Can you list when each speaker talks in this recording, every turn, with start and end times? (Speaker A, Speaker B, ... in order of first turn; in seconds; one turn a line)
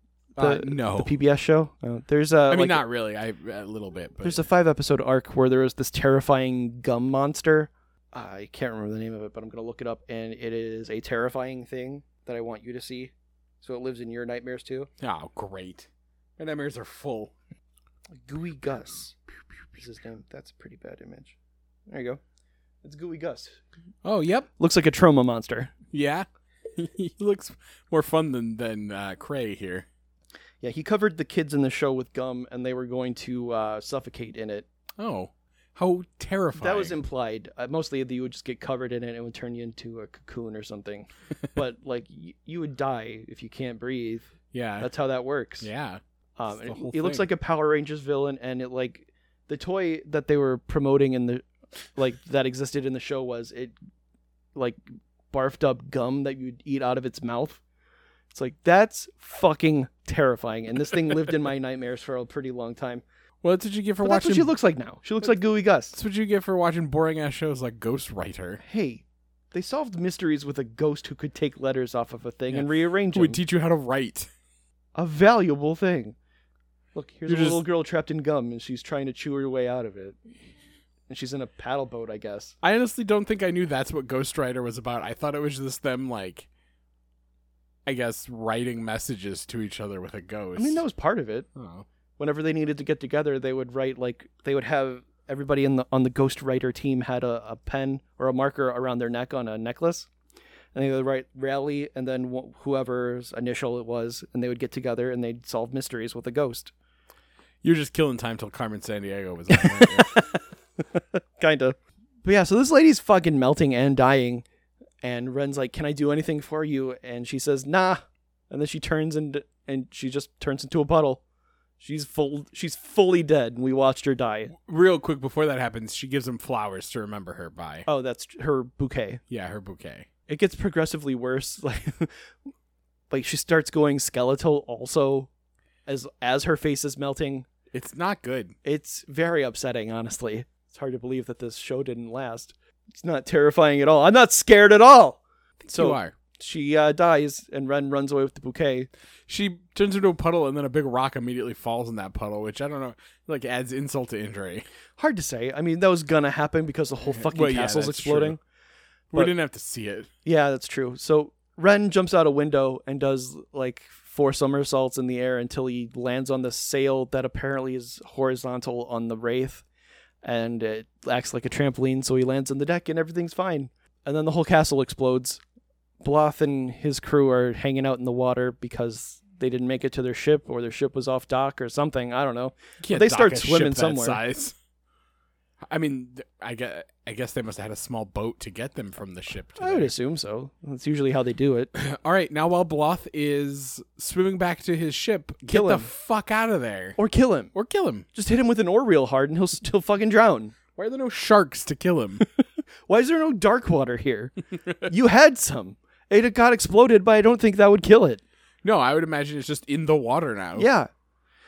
Speaker A: 0.4-1.1
Speaker B: 0.4-2.8
Speaker A: 2.5-4.4
Speaker B: 4.2-14.9
Speaker A: 15.0-17.3
Speaker B: 18.2-19.2
Speaker B: 19.7-21.3
Speaker B: 21.9-22.2
Speaker B: 22.8-23.6
Speaker A: 24.0-24.5
Speaker B: 24.6-25.7
Speaker A: 25.9-29.9
Speaker B: 30.6-34.6
Speaker A: 35.0-37.0
Speaker B: 36.6-45.7
Speaker A: 44.5-44.9
Speaker A: 45.6-47.2
Speaker B: 46.4-53.7
Speaker B: 54.5-57.6
Speaker B: 58.3-63.0
Speaker A: 63.4-64.5
Speaker B: 64.0-66.0
Speaker A: 65.9-68.6
Speaker B: 68.6-73.4
Speaker A: 72.5-74.3
Speaker B: 74.9-76.2
Speaker B: 76.9-80.2
Speaker A: 77.3-77.6
Speaker B: 81.1-82.5
Speaker A: 82.6-86.5
Speaker A: 87.8-90.8
Speaker B: 90.5-91.5
Speaker A: 91.5-91.8
Speaker B: 92.2-100.1
Speaker B: 100.7-106.7
Speaker A: 107.6-110.3
Speaker B: 109.5-110.3
Speaker B: 111.0-114.4
Speaker B: 115.0-121.2
Speaker B: 121.8-124.5
Speaker A: 124.5-127.9
Speaker B: 127.9-129.2
Speaker A: 129.3-130.1
Speaker B: 130.3-132.1
Speaker B: 133.1-135.3
Speaker B: 135.8-137.5
Speaker A: 137.7-138.6
Speaker B: 138.6-148.9
Speaker A: 145.6-146.1
Speaker A: 149.3-154.6
Speaker B: 155.0-158.4
Speaker A: 157.2-158.4
Speaker A: 159.1-160.1
Speaker B: 160.2-169.6
Speaker B: 170.2-175.4
Speaker B: 176.0-184.2
Speaker A: 182.8-184.5
Speaker A: 185.7-189.9
Speaker B: 189.6-191.7
Speaker A: 191.7-197.0
Speaker B: 195.5-195.9
Speaker B: 197.0-197.5
Speaker A: 197.5-198.1
Speaker B: 198.1-200.5
Speaker A: 200.8-202.2
Speaker B: 202.9-208.2
Speaker A: 208.6-210.7
Speaker B: 210.5-210.9